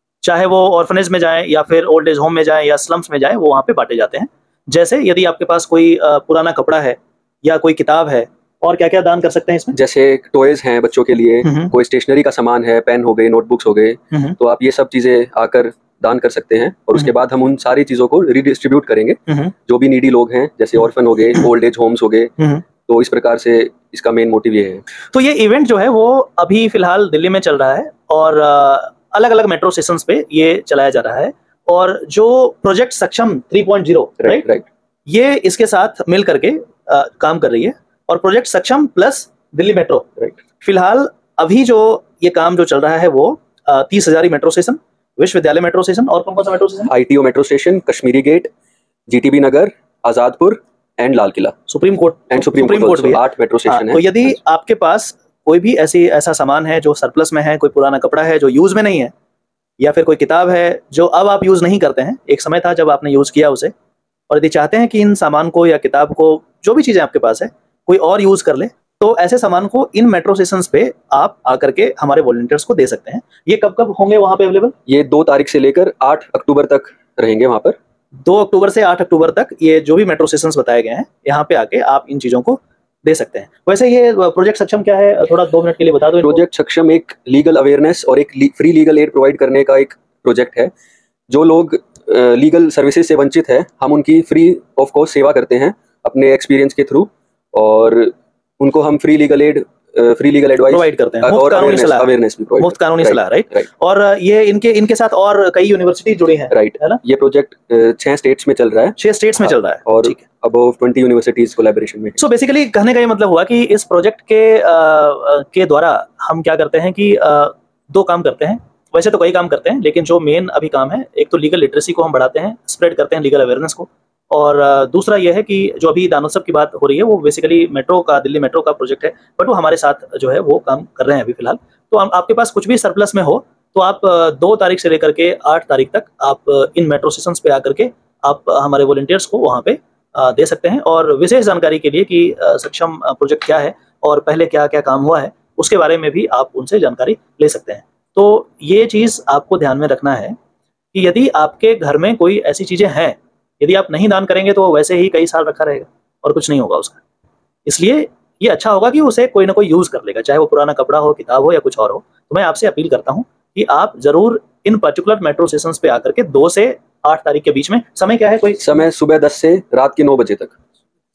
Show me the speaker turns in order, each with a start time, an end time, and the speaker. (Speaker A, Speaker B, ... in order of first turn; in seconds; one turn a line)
Speaker A: 0.2-9.8
Speaker B: 9.7-24.8
Speaker A: 11.4-11.7
Speaker A: 25.1-34.5
Speaker B: 34.2-34.7
Speaker A: 35.1-40.1
Speaker A: 40.6-46.9
Speaker B: 46.9-48.5
Speaker B: 49.1-51.5
Speaker A: 51.7-59.1
Speaker B: 52.3-54.4
Speaker A: 59.8-63.7
Speaker A: 64.3-74.7
Speaker B: 74.9-77.8
Speaker A: 78.2-86.4
Speaker B: 86.2-90.7
Speaker B: 91.3-103.7
Speaker A: 100.6-107.0
Speaker B: 106.5-112.2
Speaker A: 109.0-110.2
Speaker A: 112.2-150.4
Speaker A: 150.9-157.0
Speaker A: 157.7-168.7
Speaker B: 168.6-170.6